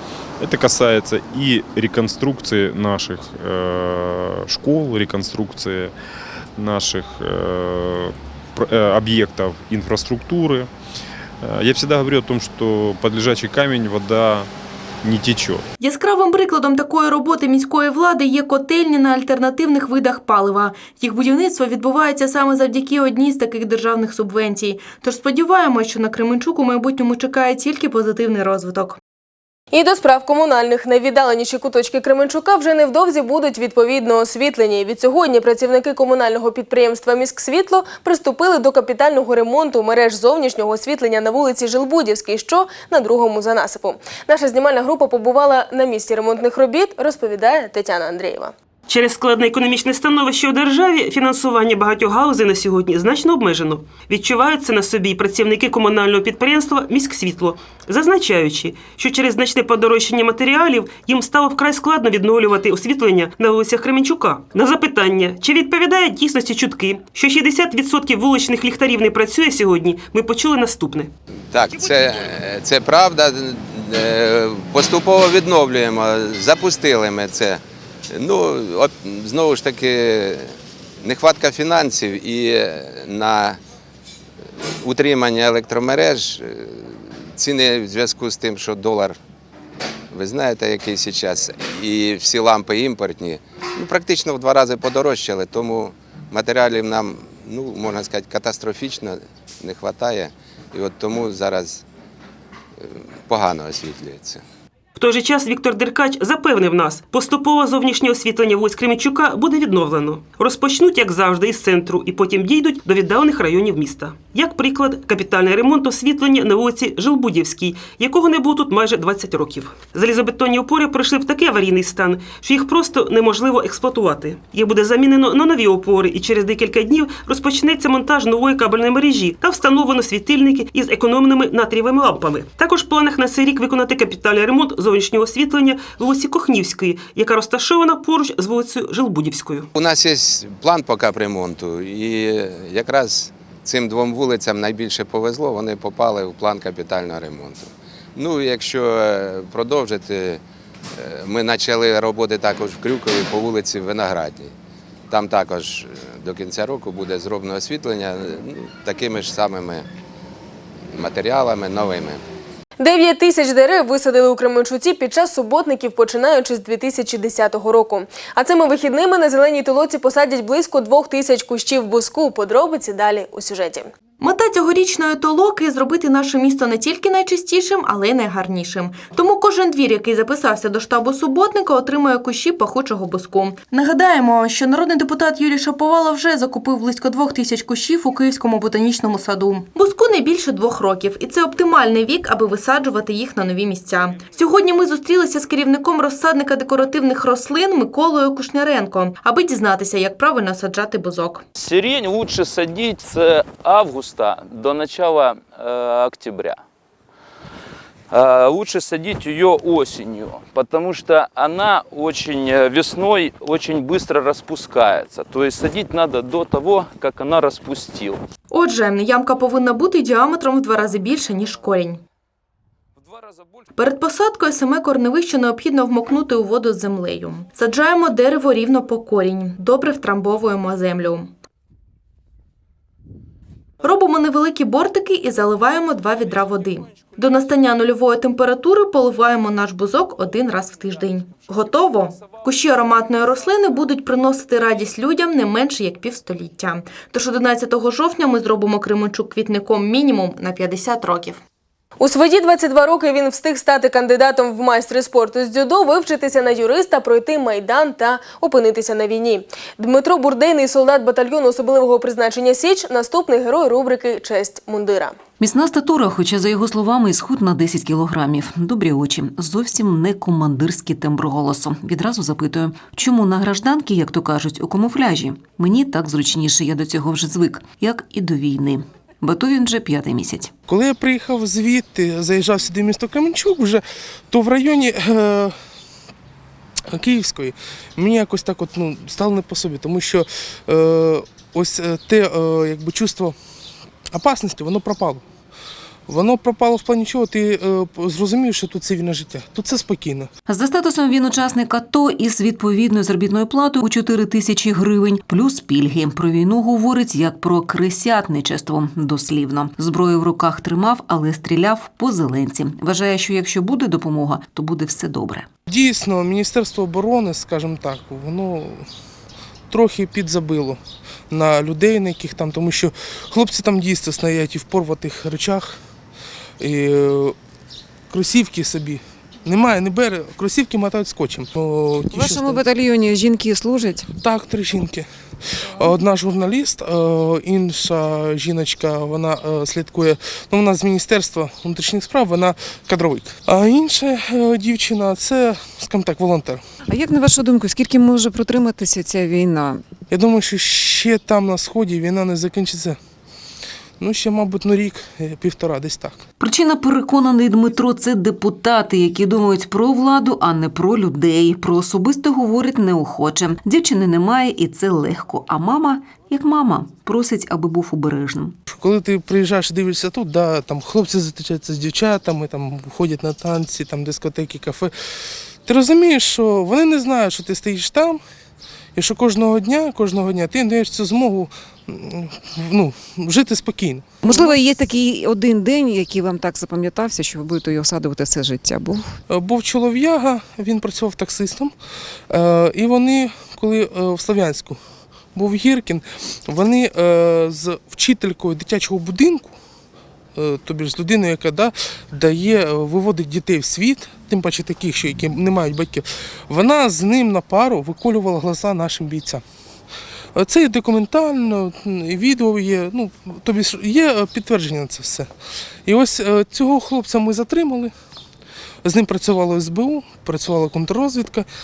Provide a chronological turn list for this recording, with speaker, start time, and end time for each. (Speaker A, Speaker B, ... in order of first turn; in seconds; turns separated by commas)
Speaker A: 0.4-5.9, Speaker A: 6.6-10.7, Speaker A: 11.4-14.5, Speaker A: 15.0-15.6, Speaker B: 15.8-29.0, Speaker C: 29.7-48.5, Speaker D: 48.9-71.1, Speaker E: 71.5-83.6, Speaker D: 71.7-72.4, Speaker E: 84.8-89.2, Speaker E: 90.1-101.8, Speaker E: 102.8-104.4, Speaker D: 105.0-139.7, Speaker E: 139.7-150.4, Speaker E: 151.0-154.5, Speaker E: 155.1-159.9, Speaker E: 160.9-162.2, Speaker C: 162.8-173.9, Speaker B: 174.2-201.4, Speaker F: 201.6-206.6, Speaker F: 208.1-218.2, Speaker B: 218.5-222.0, Speaker B: 223.8-231.3, Speaker B: 233.8-251.4, Speaker C: 252.0-265.1, Speaker G: 265.4-280.5, Speaker H: 280.7-285.6, Speaker H: 286.9-293.4, Speaker H: 294.1-295.2, Speaker H: 296.1-300.3, Speaker G: 300.5-315.5, Speaker H: 315.7-318.9, Speaker H: 319.7-325.8, Speaker H: 326.6-327.4, Speaker H: 328.1-332.7, Speaker I: 332.1-334.1, Speaker H: 334.2-335.1, Speaker H: 335.6-346.6, Speaker I: 346.9-349.8, Speaker H: 350.1-353.0, Speaker H: 354.0-356.2, Speaker G: 356.4-368.6, Speaker H: 368.7-374.9, Speaker H: 375.6-378.2, Speaker H: 378.9-384.9, Speaker I: 384.2-389.0, Speaker H: 389.3-391.7, Speaker H: 392.3-394.8, Speaker H: 395.3-399.5, Speaker H: 400.4-409.4, Speaker H: 410.4-415.3, Speaker H: 415.9-417.9, Speaker H: 418.8-421.5